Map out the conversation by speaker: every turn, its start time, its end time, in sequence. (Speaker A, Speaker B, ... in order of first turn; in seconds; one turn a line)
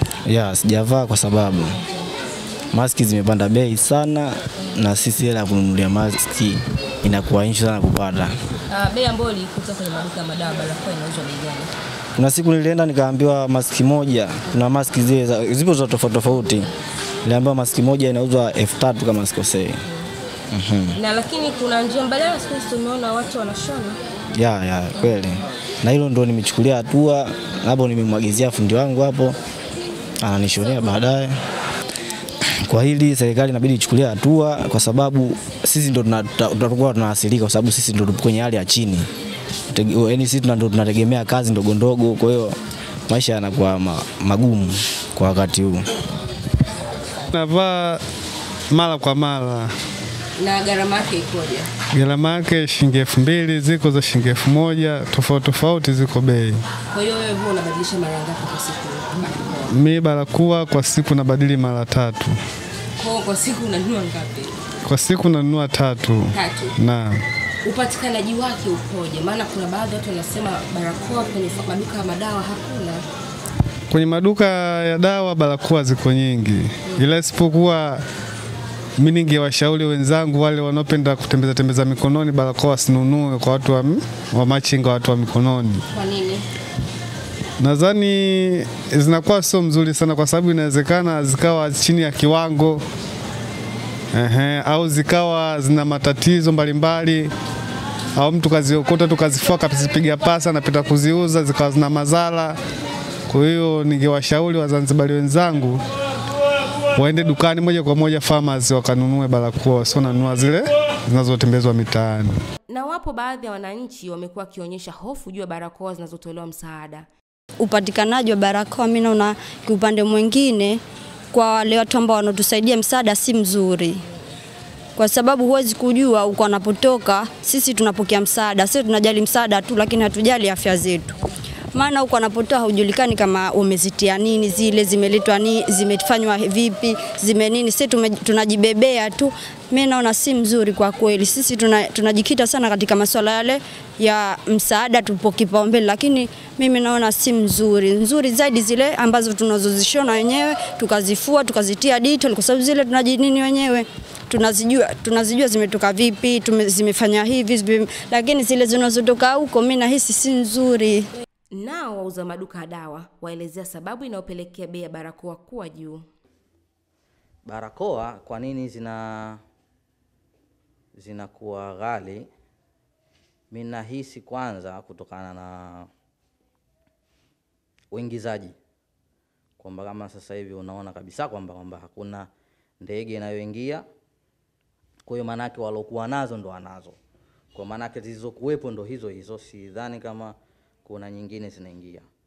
Speaker A: 0.2-1.8
Speaker A: 2.7-8.4
Speaker B: 8.7-11.7
Speaker A: 12.2-16.7
Speaker A: 17.2-19.8
Speaker A: 20.5-20.9
Speaker B: 20.9-24.0
Speaker A: 24.3-29.4
Speaker A: 30.2-31.4
Speaker A: 32.4-39.1
Speaker A: 39.7-45.9
Speaker C: 47.3-48.0
Speaker C: 48.7-49.7
Speaker B: 50.4-51.7
Speaker C: 51.9-56.6
Speaker B: 56.9-59.7
Speaker C: 59.7-62.3
Speaker B: 63.0-64.6
Speaker C: 64.8-67.2
Speaker B: 66.3-66.7
Speaker B: 67.6-73.0
Speaker C: 73.9-78.0
Speaker C: 79.0-85.8
Speaker B: 85.9-86.4
Speaker C: 87.6-92.8
Speaker C: 94.1-97.3
Speaker C: 98.2-102.5
Speaker C: 103.3-105.8
Speaker C: 106.9-112.3
Speaker B: 112.7-117.1
Speaker D: 117.6-120.8
Speaker D: 121.3-124.0
Speaker D: 125.0-131.2
Speaker D: 131.7-161.1
Speaker B: 161.5-166.1
Speaker E: 167.4-169.4
Speaker E: 170.9-172.3
Speaker E: 173.5-175.9
Speaker E: 177.9-178.6
Speaker E: 179.6-182.3
Speaker E: 182.8-183.8
Speaker E: 185.1-187.0
Speaker E: 187.5-192.1